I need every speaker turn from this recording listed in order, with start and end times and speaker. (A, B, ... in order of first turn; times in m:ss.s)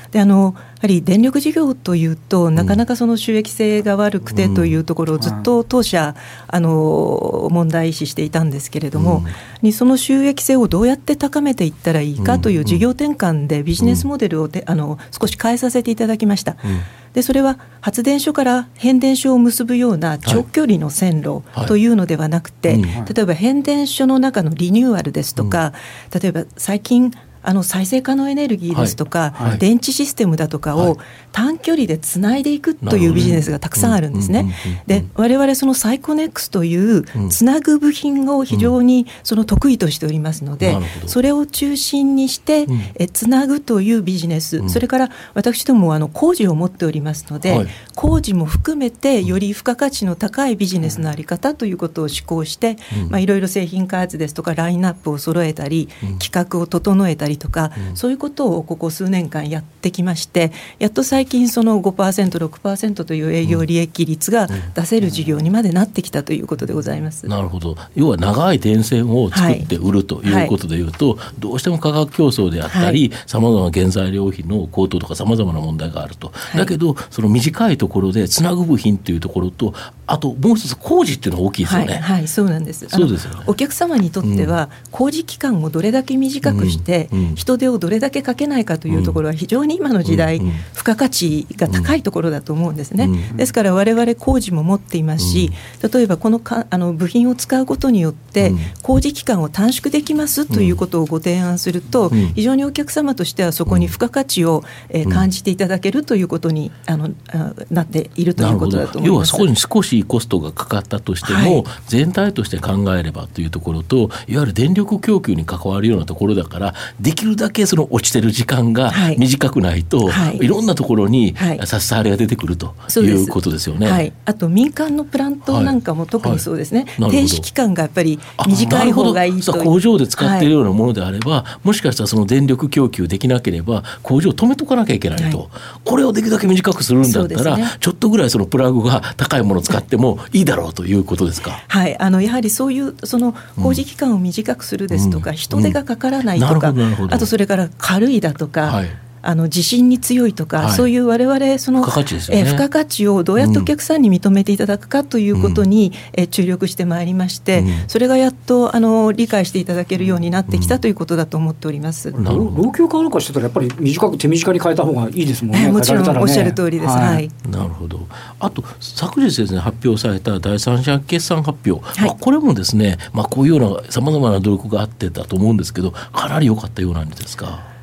0:00.1-1:07.3 A
0:04.3-0:04.8 B
0:05.2-0:05.4 C
0:09.0-0:09.3 B
0:12.2-0:12.8 B
0:13.8-0:14.0 B
0:22.7-0:23.0 B
0:28.7-0:29.6 B
0:32.8-0:35.1 B
0:40.6-0:41.2 B
0:47.4-0:47.7 B
1:07.3-1:22.0 B
1:09.3-1:09.7 A
1:10.2-1:10.5 A
1:12.7-1:13.0 A
1:21.6-1:49.5 A
1:22.9-1:23.5 B
1:24.2-1:24.5 B
1:26.4-1:27.4 B
1:28.9-1:29.2 B
1:30.0-1:30.6 B
1:31.7-1:31.9 B
1:33.0-1:33.3 B
1:35.2-1:35.5 B
1:38.4-1:38.7 B
1:40.5-1:40.8 B
1:42.1-1:42.4 B
1:43.7-1:43.9 B
1:48.4-2:04.1 B
1:51.2-1:51.6 A
1:58.9-1:59.2 A
2:00.1-2:00.5 A
2:01.4-2:01.6 A
2:02.9-2:10.5 A
2:05.5-2:06.4 B
2:07.0-2:07.5 B
2:08.4-2:21.6 B
2:15.2-2:15.4 A
2:17.0-2:17.7 A
2:21.7-2:42.2 A
2:24.9-2:25.8 B
2:26.4-2:27.3 B
2:28.6-2:29.0 B
2:30.6-2:30.9 B
2:31.8-2:32.6 B
2:33.4-2:33.7 B
2:35.3-2:35.6 B
2:37.6-2:37.9 B
2:40.5-2:40.8 B
2:42.1-2:47.2 C
2:42.2-2:42.6 B
2:45.5-2:47.3 A
2:47.4-2:57.7 B